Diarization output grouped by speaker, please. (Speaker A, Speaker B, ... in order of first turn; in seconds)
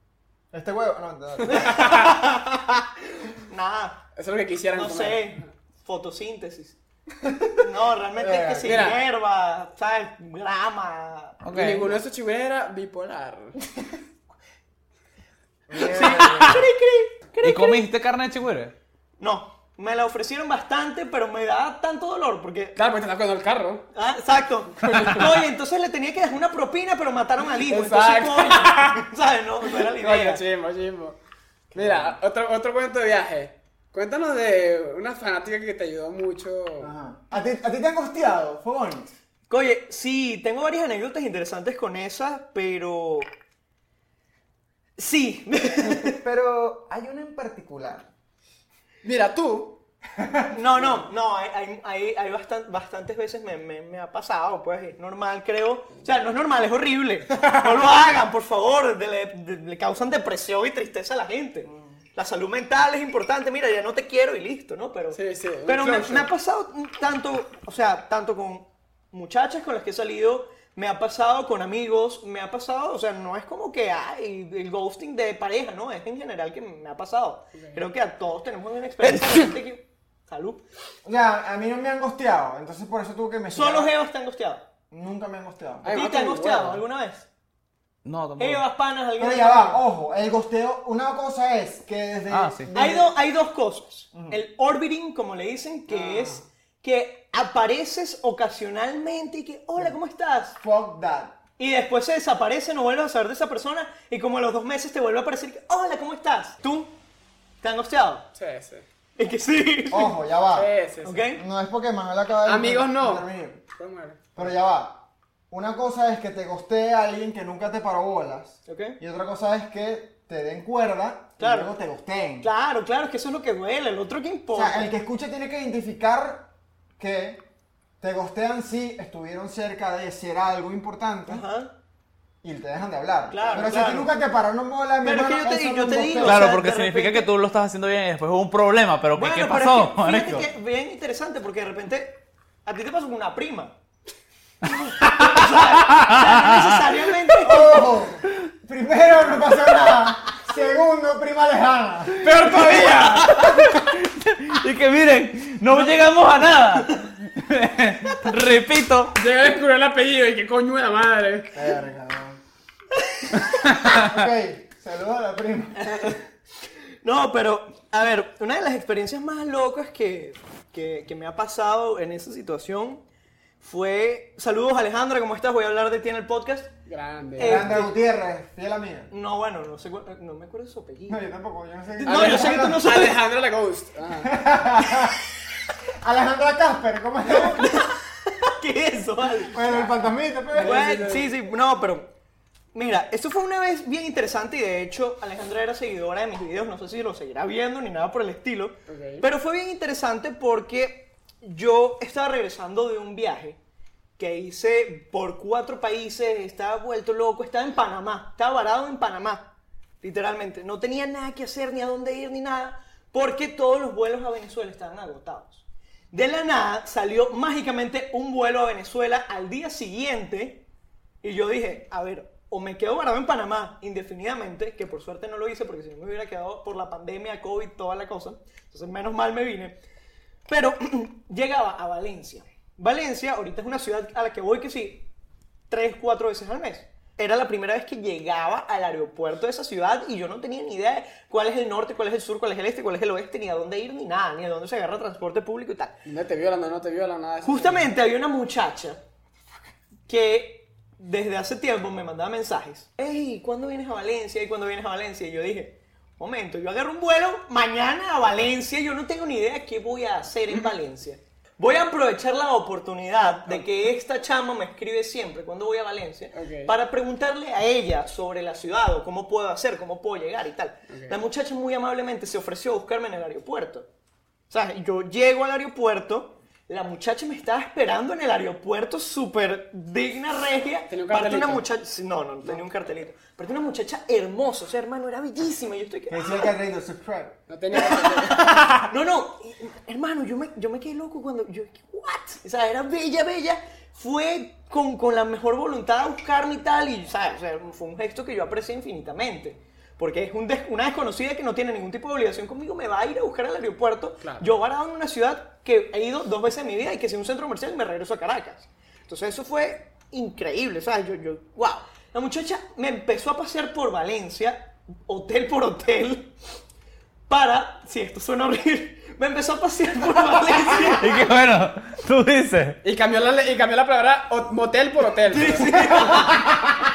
Speaker A: 0.5-1.9, 7.2-7.5, 8.2-8.9, 15.7-16.7, 31.8-32.1, 36.8-39.1, 45.8-48.1, 50.2-50.5, 61.7-62.0, 81.0-83.9, 84.9-85.9, 89.2-93.1, 94.1-94.4, 100.6-101.4, 109.9-110.7, 111.3-113.6, 114.4-122.5, 124.5-127.5, 128.0-131.4, 132.4-136.5, 147.4-152.3, 161.5-162.4, 163.8-166.2, 177.4-179.1, 181.1-182.8, 184.2-185.2, 186.0-187.7, 189.5-191.0, 286.1-287.4
Speaker B: 1.4-4.0, 4.7-6.8, 7.6-11.4, 15.8-17.9, 19.2-22.8, 23.9-30.4, 39.5-43.3, 45.0-46.2, 50.5-80.6, 83.5-84.6, 85.9-87.3, 88.4-89.8, 92.8-100.6, 101.6-106.9, 107.6-108.3, 109.2-110.1, 111.0-111.4, 118.7-119.0, 121.4-121.7, 122.4-124.9, 131.3-131.7, 133.3-134.1, 135.0-137.3, 139.2-143.7, 144.7-147.9, 163.0-163.4, 165.8-166.2, 167.0-173.0, 173.6-176.7, 177.4-177.9, 179.1-181.2, 182.0-183.2, 187.3-189.8, 190.6-192.1, 192.7-203.6, 204.2-209.5, 210.0-220.6, 221.2-229.8, 230.5-235.1, 235.7-245.9, 247.4-249.0, 250.1-273.9, 274.5-286.5, 287.8-316.3, 317.3-321.2, 325.3-326.5
Speaker C: 4.2-5.5, 8.6-9.0, 11.5-13.6, 22.8-23.9, 24.8-25.4, 27.6-29.1, 29.8-31.2, 31.7-36.9, 49.0-49.8, 65.1-66.3, 77.5-77.8, 85.8-86.8, 95.9-96.4, 108.3-108.8, 110.5-111.2, 112.5-114.2, 152.2-153.4, 159.2-161.6, 176.9-177.8, 182.1-184.3, 190.5-191.3, 198.9-199.2, 246.1-247.9, 266.3-266.7, 270.9-271.2, 280.9-281.6, 287.5-288.7, 304.2-304.5, 322.8-326.1
Speaker D: 11.4-12.0, 17.4-18.7, 88.0-88.6, 92.3-92.7, 136.2-140.5, 145.2-146.8, 153.1-159.2, 163.7-164.0, 321.0-322.8